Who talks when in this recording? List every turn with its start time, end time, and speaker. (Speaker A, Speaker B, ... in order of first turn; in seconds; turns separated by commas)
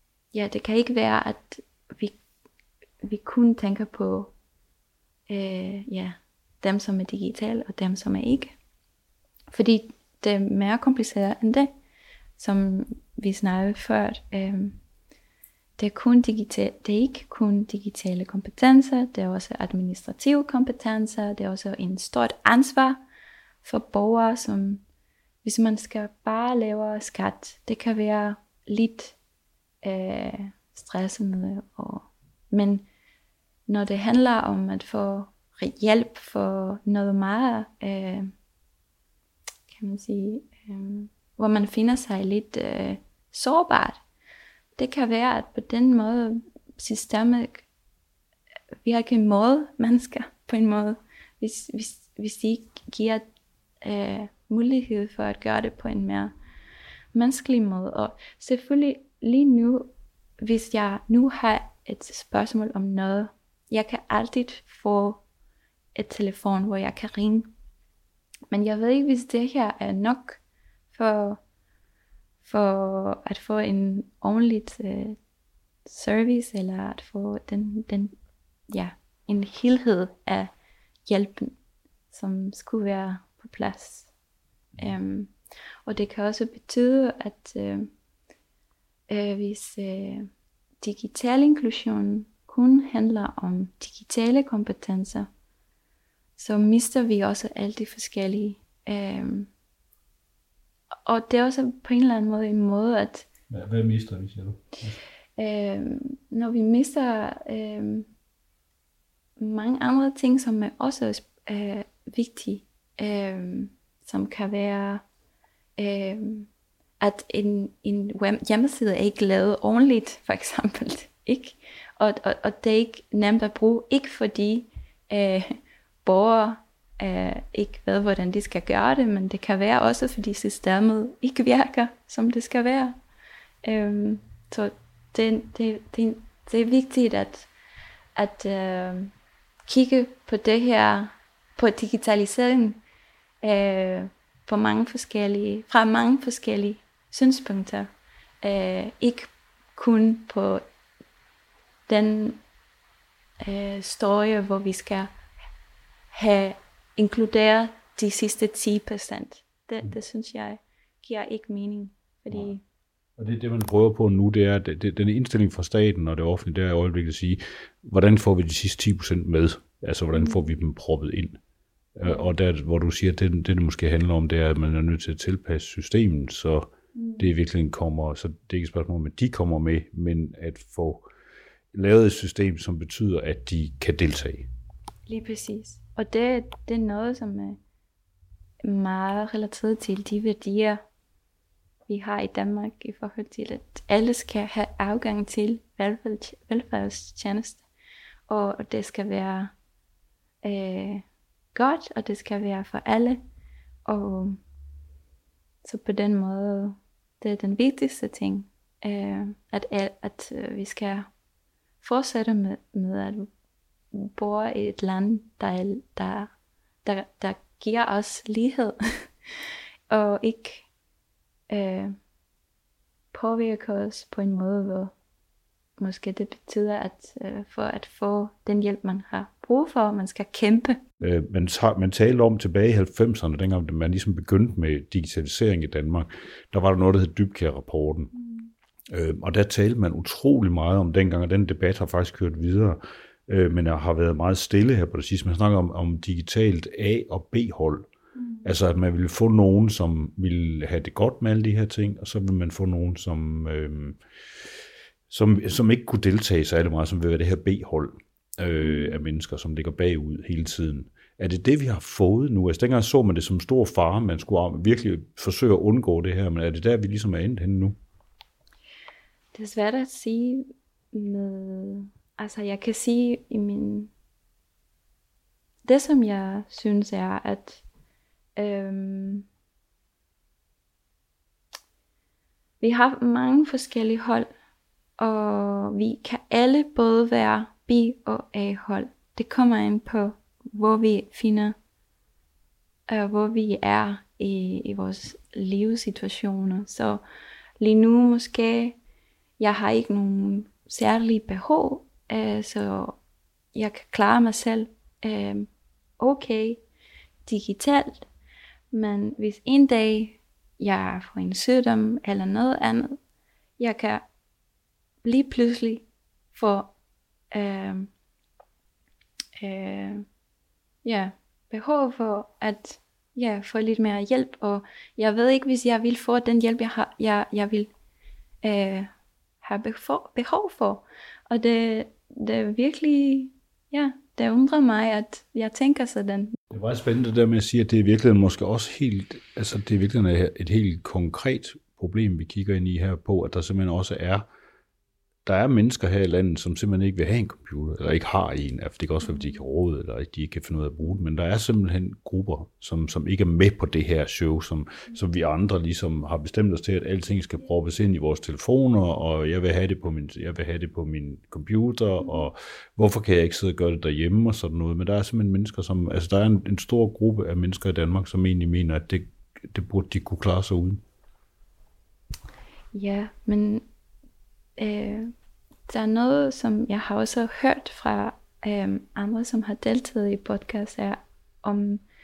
Speaker A: 0.3-2.2, Speaker A: 3.0-4.3, Speaker A: 5.3-8.5, Speaker A: 9.5-11.7, Speaker A: 12.4-14.8, Speaker A: 15.8-23.0, Speaker A: 23.6-24.8, Speaker A: 25.4-29.1, Speaker A: 29.8-32.9, Speaker A: 33.7-38.3, Speaker A: 39.7-44.0, Speaker A: 44.8-47.6, Speaker A: 48.8-53.2, Speaker A: 53.8-56.3, Speaker A: 57.1-65.2, Speaker A: 66.0-67.5, Speaker A: 68.5-70.4, Speaker A: 70.9-71.4, Speaker A: 72.4-75.2, Speaker A: 75.8-78.1, Speaker A: 78.7-80.5, Speaker A: 81.1-81.5, Speaker A: 82.1-84.1, Speaker A: 84.8-85.3, Speaker A: 85.8-87.9, Speaker A: 89.1-90.3, Speaker A: 90.8-95.3, Speaker A: 96.4-99.5, Speaker A: 101.0-103.3, Speaker B: 103.5-105.0, Speaker A: 105.4-108.1, Speaker A: 109.4-115.0, Speaker A: 115.8-116.5, Speaker A: 117.0-133.0, Speaker A: 133.6-137.5, Speaker A: 138.2-139.1, Speaker A: 139.7-142.8, Speaker A: 143.4-147.9, Speaker A: 148.4-150.6, Speaker A: 151.9-152.4, Speaker A: 153.4-155.1, Speaker A: 156.1-162.6, Speaker B: 163.2-171.4, Speaker A: 170.1-170.5, Speaker B: 171.9-181.0, Speaker A: 172.0-172.3, Speaker A: 176.9-177.3, Speaker B: 181.7-184.5, Speaker A: 185.1-187.6, Speaker A: 188.6-190.8, Speaker A: 191.9-197.6, Speaker A: 198.3-199.5, Speaker A: 200.4-203.2, Speaker A: 203.9-204.4, Speaker A: 205.6-211.1, Speaker A: 211.8-213.3, Speaker A: 213.9-216.3, Speaker A: 216.8-219.1, Speaker A: 219.9-220.6, Speaker A: 221.5-221.9, Speaker A: 223.1-224.9, Speaker A: 225.8-230.8, Speaker B: 231.0-238.1, Speaker A: 238.1-238.5, Speaker B: 238.9-247.9, Speaker A: 248.2-248.5, Speaker B: 248.4-254.0, Speaker B: 255.1-267.8, Speaker A: 258.6-259.0, Speaker A: 269.3-273.9, Speaker A: 275.6-277.6, Speaker A: 278.4-279.3, Speaker A: 282.6-284.3, Speaker A: 285.0-291.6, Speaker A: 292.9-297.0, Speaker A: 297.6-298.8, Speaker A: 299.4-303.0, Speaker A: 303.5-306.6, Speaker A: 307.2-308.1, Speaker A: 308.7-313.0, Speaker A: 313.6-314.1, Speaker A: 315.0-316.7, Speaker A: 317.3-317.9, Speaker A: 319.4-320.1, Speaker A: 320.8-327.7, Speaker A: 328.4-328.9, Speaker A: 329.4-336.3, Speaker B: 336.5-344.3, Speaker B: 345.2-370.8, Speaker A: 349.0-349.4, Speaker A: 362.0-362.3, Speaker A: 372.7-373.6, Speaker A: 374.6-375.1, Speaker A: 375.7-381.8